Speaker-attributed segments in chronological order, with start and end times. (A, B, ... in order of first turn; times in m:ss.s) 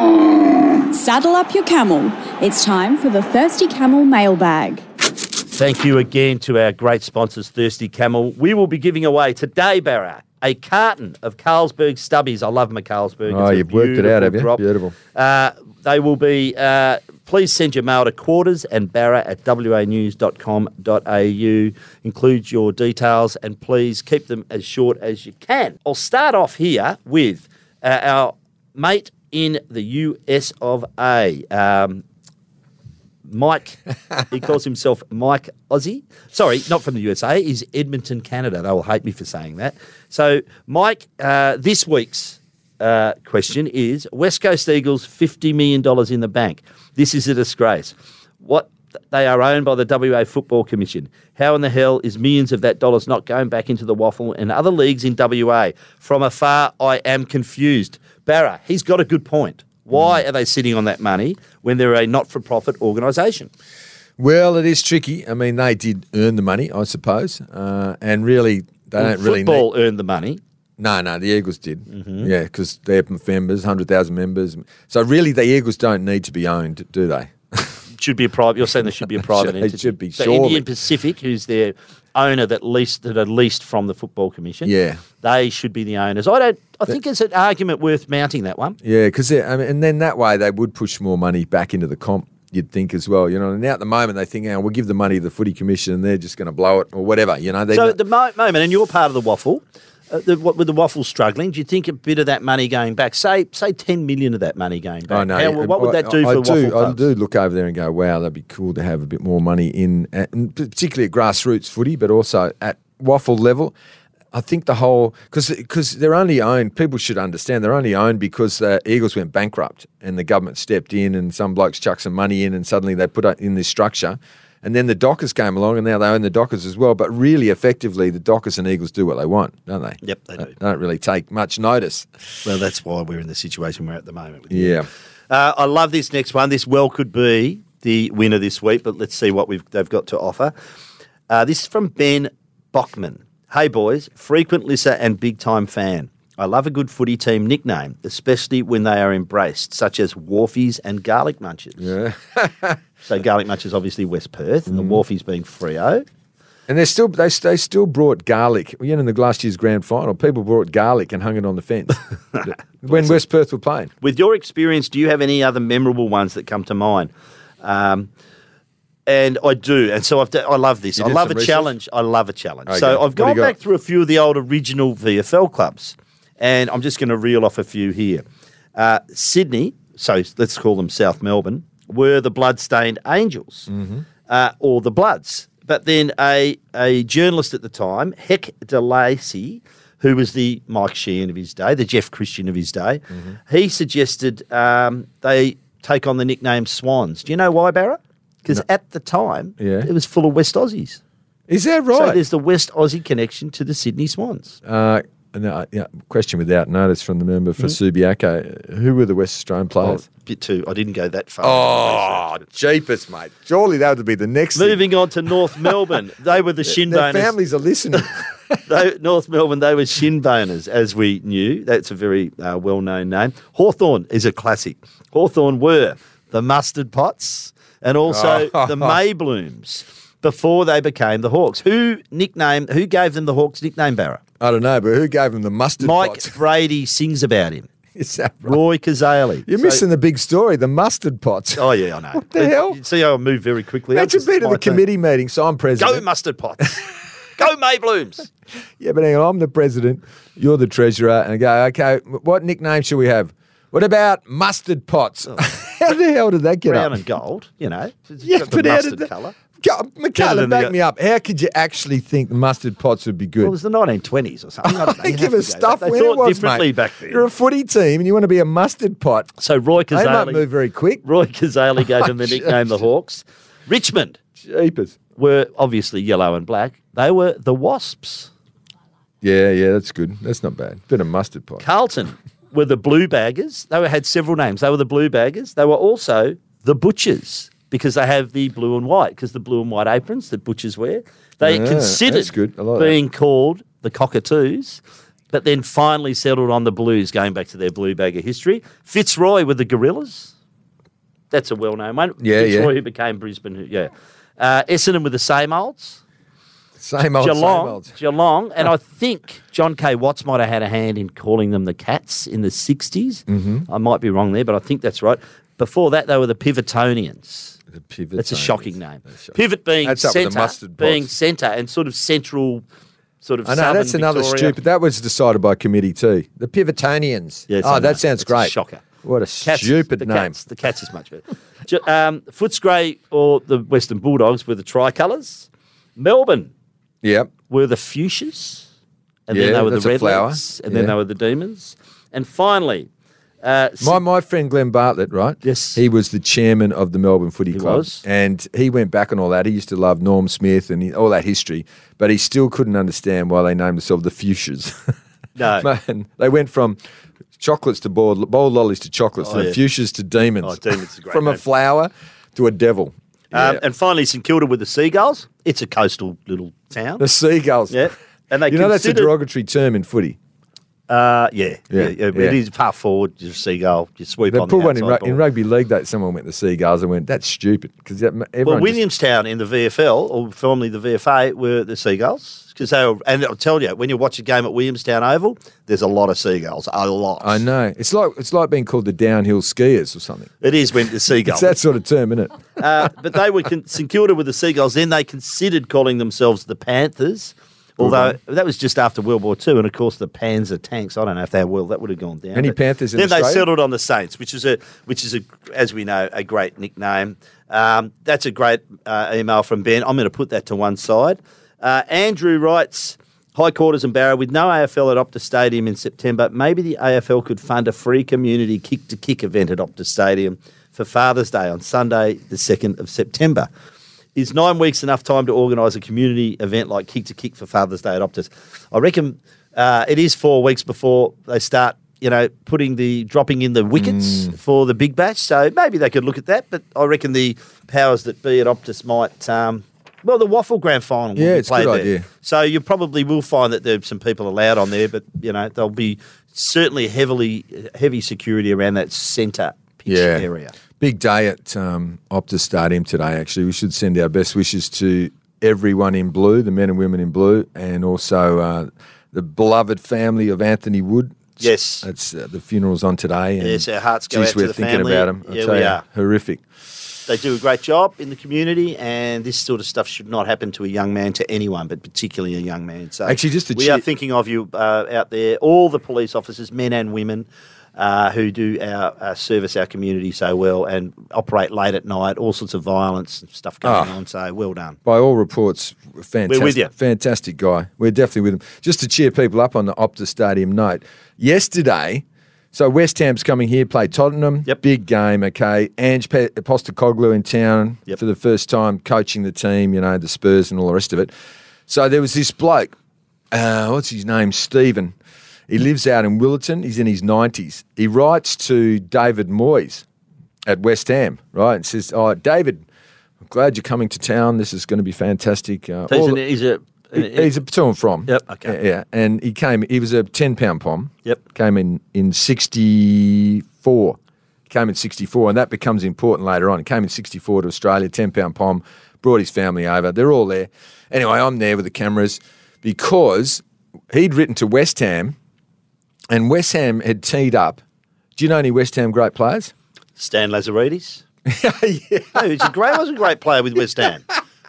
0:00.9-0:04.8 A
0:05.5-0:32.0 B
0:13.3-0:14.9 C
0:33.3-1:03.5 B
1:04.2-1:09.7 C
1:09.0-1:10.4 B
1:10.8-1:17.8 C
1:11.9-1:12.3 B
1:17.9-1:28.8 B
1:19.2-1:20.7 C
1:24.6-1:25.0 C
1:28.8-1:38.0 C
1:37.7-1:47.0 B
1:45.1-1:53.7 C
1:54.3-2:12.1 C
2:10.0-2:10.5 B
2:12.4-2:20.5 B
2:14.5-2:14.9 C
2:21.3-2:31.9 B
2:31.8-2:32.8 C
2:33.1-2:36.0 B
2:34.7-2:35.0 C
2:36.7-2:43.9 C
2:42.4-2:43.2 B
2:44.0-2:47.1 B
2:47.6-2:48.1 B
2:49.1-2:58.2 B
2:51.0-2:51.7 C
2:52.7-2:53.6 C
2:58.8-3:03.7 B
3:03.7-3:04.0 C
3:04.3-3:21.0 B
3:19.6-3:19.9 C
3:21.5-3:22.2 C
3:21.9-3:24.6 B
3:24.6-3:30.0 C
3:29.8-3:32.4 B
3:31.4-3:35.8 C
3:34.6-3:37.3 B
3:36.6-3:38.6 C
3:38.7-3:54.2 B
3:48.1-3:49.0 C
3:54.4-3:56.4 C
3:55.8-3:57.7 B
3:58.0-3:58.6 C
3:58.4-3:59.8 B
3:59.5-4:02.8 C
4:01.6-4:04.8 B
4:03.9-4:06.0 C
4:05.8-4:06.8 B
4:07.4-4:08.3 B
4:08.8-4:16.9 C
4:16.7-4:19.4 B
4:18.2-4:23.6 C
4:20.2-4:20.8 B
4:23.4-4:27.3 B
4:24.6-4:29.3 C
4:29.4-4:30.5 B
4:29.9-4:31.0 C
4:31.0-4:34.2 B
4:32.0-4:32.8 C
4:34.4-4:35.0 C
4:35.2-4:38.3 B
4:39.2-4:41.6 C
4:41.6-4:54.8 B
4:51.4-4:53.0 C
4:55.3-5:00.3 B
5:01.3-5:06.0 B
5:02.2-5:02.7 C
5:06.8-5:07.9 C
5:07.2-5:17.6 B
5:13.3-5:13.7 C
5:17.7-5:21.1 C
5:18.2-5:22.6 B
5:23.2-5:24.6 B
5:23.4-5:30.4 C
5:27.5-5:28.9 B
5:29.4-5:36.5 B
5:37.0-5:37.3 C
5:37.5-5:38.7 B
5:39.3-5:42.9 B
5:39.3-5:40.9 C
5:43.4-5:44.0 B
5:43.8-5:54.8 C
5:45.4-5:45.8 B
5:47.5-5:48.0 B
5:55.4-5:55.7 B
5:55.6-5:56.8 C
5:57.4-6:03.6 C
5:59.2-5:59.6 B
6:00.4-6:01.4 B
6:03.3-6:07.0 B
6:07.0-6:07.9 C
6:07.7-6:09.1 B
6:08.5-6:10.2 C
6:10.9-6:15.2 B
6:11.7-6:12.4 C
6:14.3-6:18.8 C
6:18.4-6:27.4 B
6:27.2-6:30.3 C
6:30.4-6:31.5 B
6:31.2-6:32.9 C
6:32.6-7:03.5 B
6:37.8-6:38.2 C
6:42.4-6:43.5 C
7:04.2-7:30.5 B
7:13.8-7:14.3 C
7:21.2-7:22.1 C
7:29.9-7:30.3 C
7:30.8-7:46.4 C
7:41.4-7:41.8 B
7:43.4-7:45.8 B
7:47.1-8:04.8 B
7:53.0-7:53.8 C
8:03.6-8:03.9 C
8:04.8-8:21.1 C
8:06.3-8:06.7 B
8:21.7-8:22.7 C
8:23.3-8:25.0 C
8:25.5-8:29.8 C
8:30.4-8:32.6 C
8:33.2-8:36.2 C
8:35.9-8:37.3 B
8:36.9-8:44.0 C
8:38.1-8:38.6 B
8:44.5-8:55.2 C
8:56.1-8:57.6 C
8:58.2-8:59.5 C
9:00.0-9:01.0 B
9:01.3-9:02.5 C
9:02.1-9:04.1 B